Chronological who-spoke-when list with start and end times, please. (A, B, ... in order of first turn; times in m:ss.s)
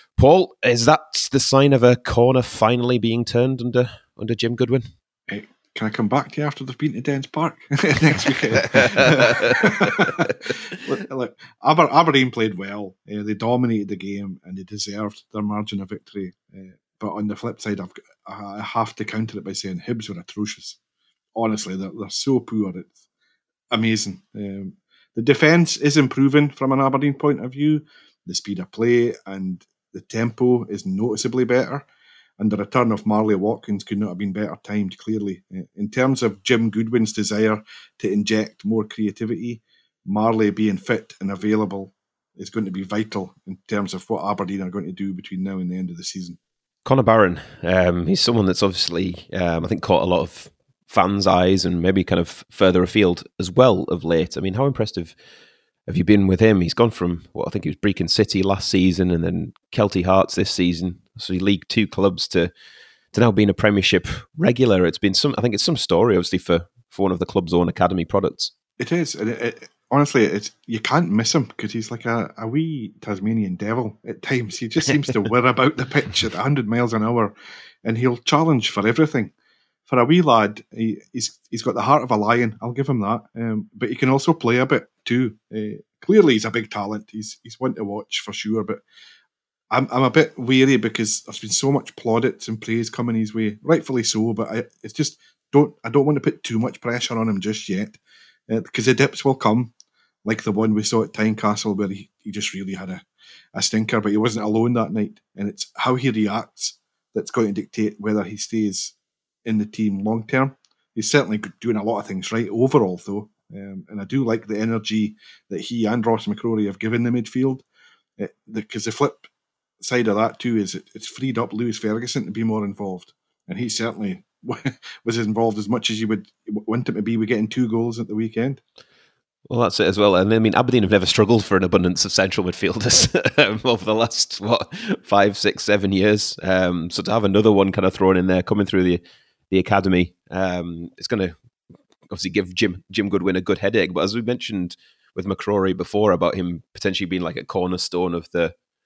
0:00.2-0:04.9 A
0:05.3-0:20.8 B
0:08.7-0:09.6 A
0:21.4-0:23.0 B
0:23.7-0:31.8 B
0:32.4-0:46.4 B
0:46.8-0:55.2 A
0:55.9-1:02.5 A
1:03.1-1:08.5 A
1:08.8-1:19.3 B
1:19.9-1:28.8 B
1:29.7-1:39.7 B
1:40.2-1:48.9 B
1:49.4-1:57.6 B
1:58.2-1:59.2 B
1:59.8-2:08.6 B
2:09.5-2:21.4 A
2:22.1-2:28.6 A